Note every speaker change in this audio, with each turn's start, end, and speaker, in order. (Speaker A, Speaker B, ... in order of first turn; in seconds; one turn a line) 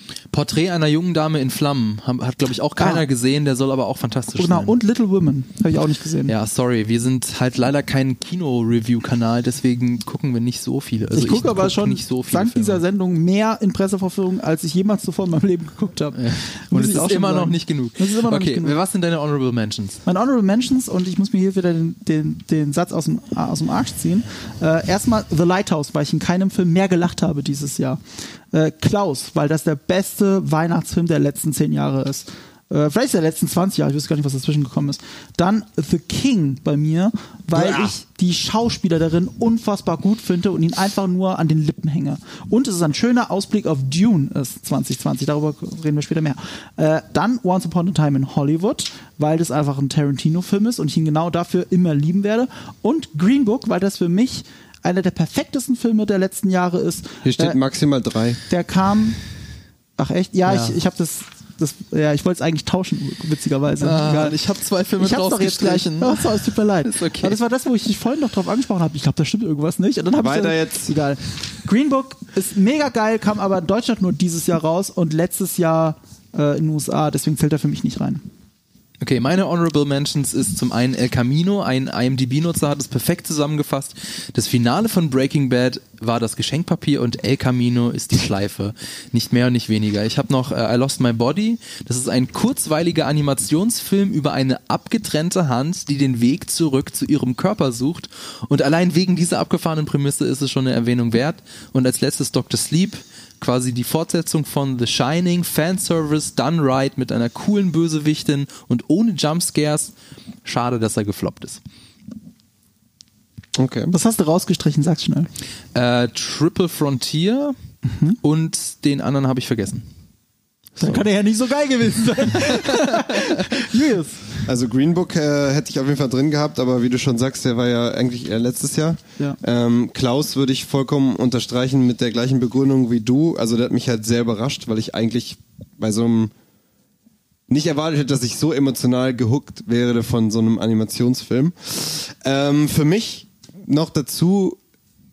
Speaker A: 0.3-4.8
Speaker B: 2.8-3.0
Speaker B: 4.4-6.3
Speaker A: 6.3-12.8
Speaker B: 11.1-18.8
Speaker A: 16.1-20.0
Speaker B: 20.0-28.0
Speaker B: 28.5-57.6
Speaker C: 37.5-37.9
Speaker C: 57.2-58.4
Speaker B: 58.5-59.2
Speaker B: 60.0-64.4
Speaker A: 60.5-60.8
Speaker A: 63.8-67.3
Speaker B: 65.0-78.2
Speaker C: 70.2-71.0
Speaker A: 79.0-109.9
Speaker A: 110.4-111.6
Speaker C: 113.5-113.9
Speaker B: 113.9-115.3
Speaker A: 115.7-117.5
Speaker A: 118.2-119.8
Speaker B: 120.8-124.5
Speaker A: 122.4-123.4
Speaker C: 124.5-136.3
Speaker C: 137.5-144.6